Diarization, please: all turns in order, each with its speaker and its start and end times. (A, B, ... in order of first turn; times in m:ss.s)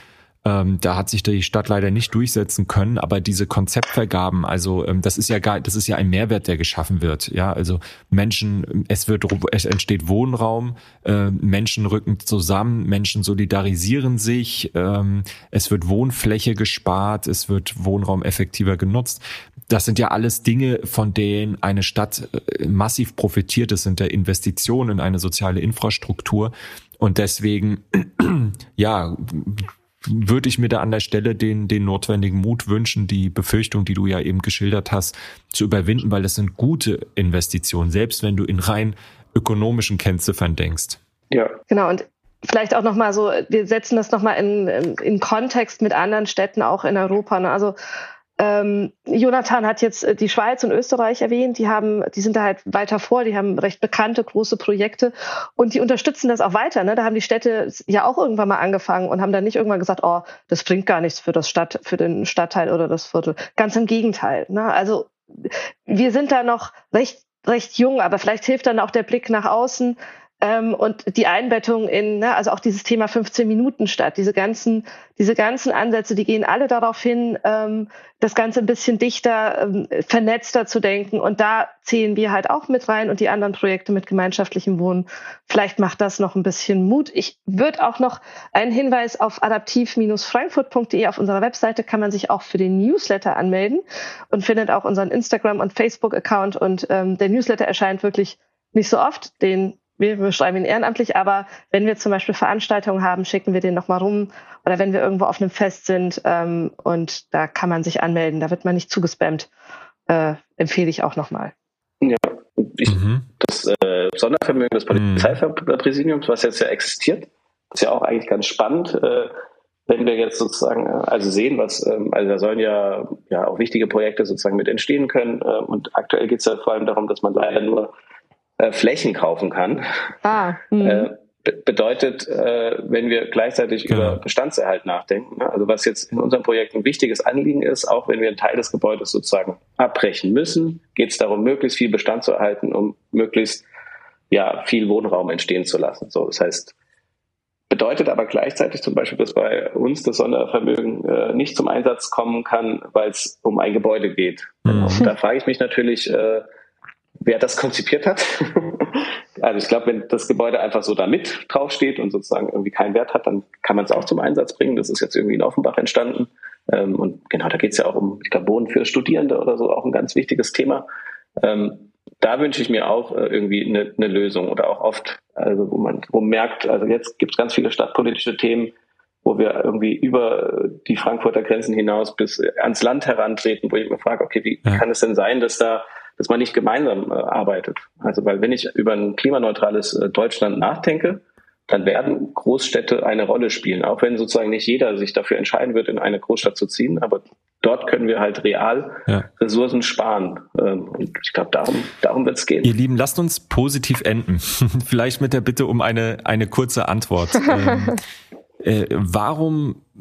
0:00.4-0:41.0 A
0:41.3-0:41.6 B
0:41.7-0:47.7 C
0:48.4-1:49.5 C
1:50.1-1:51.5 C
1:52.0-1:59.3 B
1:52.9-1:53.2 A
1:54.9-1:55.4 A
1:59.9-2:07.9 B
2:08.6-2:09.8 B
2:10.2-2:11.1 C
2:10.8-2:23.6 B
2:13.9-2:14.2 A
2:24.3-2:26.7 B
2:27.7-2:36.4 B
2:34.6-2:35.1 A
2:37.2-2:50.8 B
2:51.4-3:22.7 B
3:22.6-3:28.0 A
3:27.4-3:27.9 C
3:28.6-3:29.8 A